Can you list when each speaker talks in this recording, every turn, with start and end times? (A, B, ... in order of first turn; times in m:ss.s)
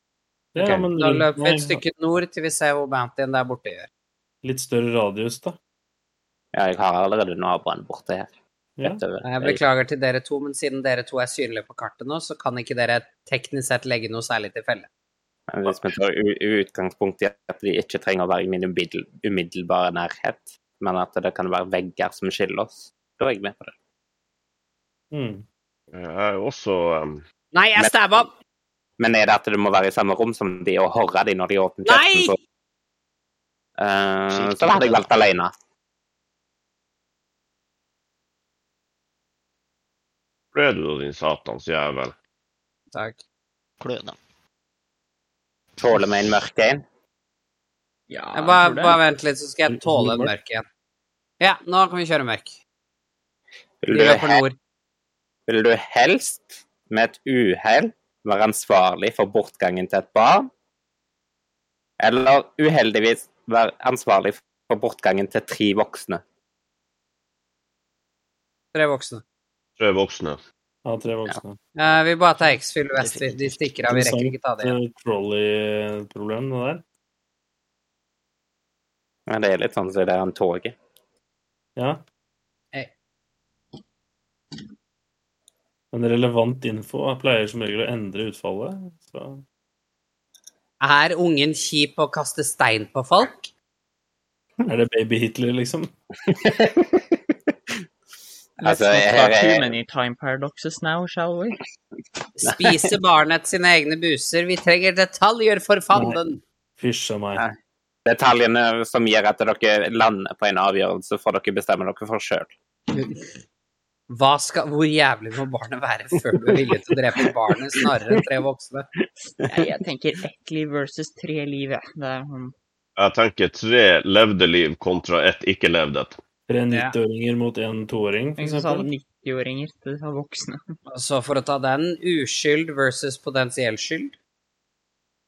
0:00.5-0:01.8 A
0:00.6-0:00.9 B
0:00.9-0:03.9 C
0:04.4-0:05.6 A
0:06.5-0:08.3 B
0:08.8-0:09.6 B
0:09.2-0:14.9 C
0:15.5-0:23.7 B
0:25.1-0:25.4 A
0:25.9-0:27.2 D
0:27.5-0:28.3 C
0:29.0-0:32.4 B
0:31.8-0:32.4 C
0:33.8-0:35.5 B
0:34.3-0:35.1 E
0:40.5-0:42.1 D
0:42.9-0:43.2 C
0:43.8-0:44.2 E
0:45.8-0:46.8 B
0:48.1-0:49.0 F
0:48.3-0:50.6 C
0:49.7-0:50.3 A
0:51.4-0:52.6 C
0:53.8-0:54.4 B
0:53.9-0:54.6 C
0:55.5-1:00.5 B
1:02.0-1:06.2 B
1:08.7-1:09.2 C
1:09.8-1:10.4 D
1:10.8-1:11.6 A
1:11.8-1:14.7 C
1:13.0-1:13.7 E
1:13.8-1:16.8 A
1:19.3-1:20.7 B
1:21.8-1:22.0 A
1:25.9-1:29.4 A
1:30.8-1:33.5 C
1:34.6-1:35.9 A
1:36.3-1:37.3 B
1:38.6-1:39.8 B
1:38.6-1:41.6 F
1:42.4-1:46.4 C
1:45.9-1:46.2 A
1:46.8-1:47.4 A
1:47.4-1:52.5 B
1:54.1-1:58.9 C
1:59.4-2:02.5 F
2:03.0-2:06.2 D
2:06.5-2:08.9 A
2:08.4-2:10.6 F
2:10.9-2:14.1 C